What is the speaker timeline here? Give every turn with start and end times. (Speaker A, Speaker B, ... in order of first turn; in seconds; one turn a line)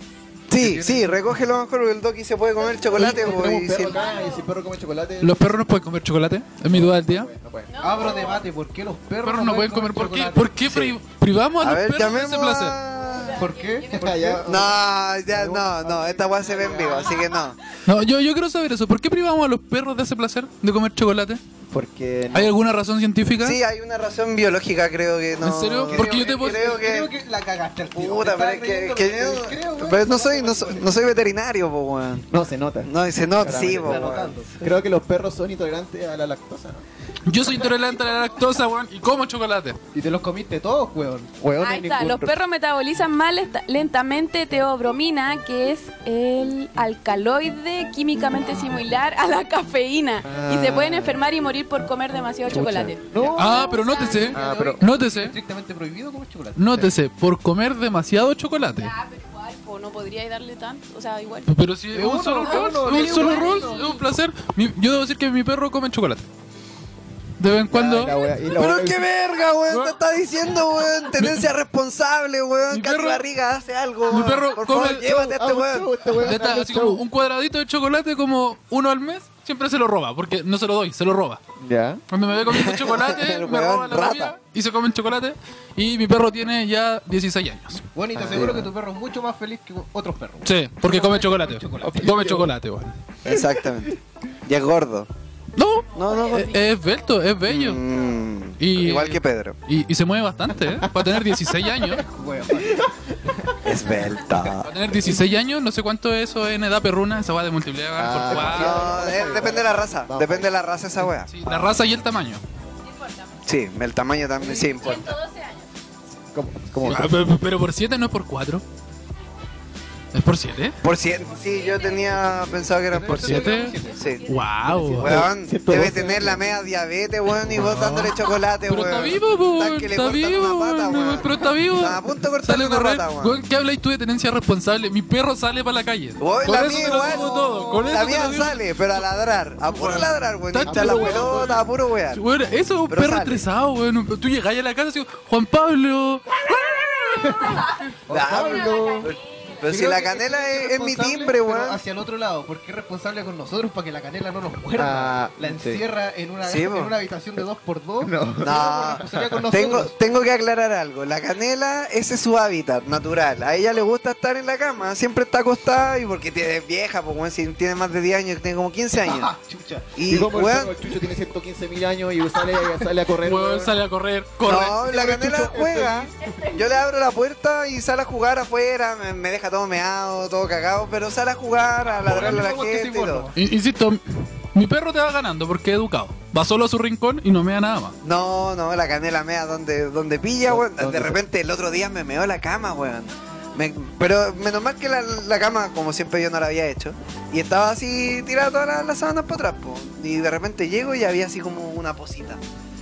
Speaker A: 0.5-4.1
Speaker B: 0.5-1.2
Speaker C: 2.6-4.5
Speaker D: 2.9-5.5
Speaker E: 5.2-7.3
Speaker D: 6.7-8.2
Speaker C: 7.7-8.4
Speaker B: 7.8-10.7
Speaker E: 9.2-12.8
Speaker A: 10.7-10.9
Speaker A: 11.6-13.4
Speaker C: 12.9-14.4
Speaker B: 13.4-14.4
Speaker D: 13.9-17.2
Speaker A: 14.4-17.6
Speaker C: 16.9-17.4
Speaker E: 17.8-21.4
Speaker D: 21.7-22.5
Speaker E: 22.3-23.6
Speaker A: 23.4-27.1
Speaker E: 25.4-26.7
Speaker B: 25.9-30.9
Speaker A: 27.9-32.3
Speaker D: 32.3-36.8
Speaker A: 32.8-34.6
Speaker B: 33.7-34.5
Speaker E: 37.2-39.8
Speaker B: 39.9-41.3
Speaker D: 41.4-42.3
Speaker C: 41.6-54.8
Speaker D: 50.2-51.2
Speaker D: 52.5-53.8
Speaker E: 53.4-55.3
Speaker D: 54.3-54.8
Speaker B: 54.3-56.7
Speaker E: 56.6-58.9
Speaker C: 58.6-61.5
Speaker E: 61.5-66.2
Speaker B: 61.9-63.9
Speaker C: 62.5-64.0
Speaker E: 67.4-68.2
Speaker D: 67.7-69.1
Speaker C: 68.0-68.3
Speaker A: 68.5-76.1
Speaker E: 69.7-70.0
Speaker E: 71.2-71.4
Speaker E: 72.7-73.2
Speaker E: 74.1-75.2
Speaker D: 75.0-77.1
Speaker E: 76.2-81.4
Speaker D: 81.6-82.0
Speaker E: 82.1-87.8
Speaker A: 82.5-84.3
Speaker B: 87.9-92.4
Speaker D: 88.1-88.7
Speaker A: 88.3-88.6
Speaker E: 90.4-93.0
Speaker D: 91.8-92.5
Speaker D: 93.2-93.7
Speaker A: 93.2-93.9
Speaker A: 94.5-95.1
Speaker E: 95.6-97.8
Speaker C: 95.9-97.1
Speaker A: 96.0-96.6
Speaker A: 97.5-99.6
Speaker C: 97.9-98.2
Speaker E: 98.6-102.0
Speaker D: 100.7-101.1
Speaker B: 102.0-102.8
Speaker A: 103.6-104.7
Speaker E: 104.6-108.9
Speaker D: 108.0-110.6
Speaker A: 108.3-111.3
Speaker E: 111.3-112.4
Speaker C: 112.8-113.4
Speaker A: 113.5-115.2
Speaker C: 114.4-115.7
Speaker D: 114.8-115.1
Speaker D: 116.3-117.1
Speaker E: 116.8-118.6
Speaker E: 120.1-120.8
Speaker A: 120.8-124.2
Speaker C: 121.3-122.8
Speaker B: 122.9-124.0
Speaker E: 123.1-125.3
Speaker C: 123.6-124.9
Speaker D: 124.9-126.5
Speaker A: 125.0-133.4
Speaker E: 127.5-128.2
Speaker E: 128.7-139.0
Speaker A: 136.2-142.2
Speaker E: 139.6-146.2
Speaker D: 140.7-141.6
Speaker A: 142.9-143.4
Speaker C: 146.5-149.6
Speaker D: 148.1-149.1
Speaker A: 148.1-151.8
Speaker B: 148.1-148.4
Speaker B: 149.7-160.0
Speaker D: 154.8-155.8
Speaker A: 156.4-157.0
Speaker D: 158.0-159.4
Speaker A: 158.4-169.3
Speaker B: 169.0-169.9
Speaker A: 169.9-170.8
Speaker D: 170.1-173.8
Speaker E: 173.2-174.9
Speaker A: 174.4-183.3
Speaker D: 175.0-175.9
Speaker B: 175.4-175.7
Speaker C: 176.2-176.7
Speaker B: 181.8-183.3
Speaker E: 183.3-188.0
Speaker A: 188.0-202.4
Speaker D: 190.5-191.2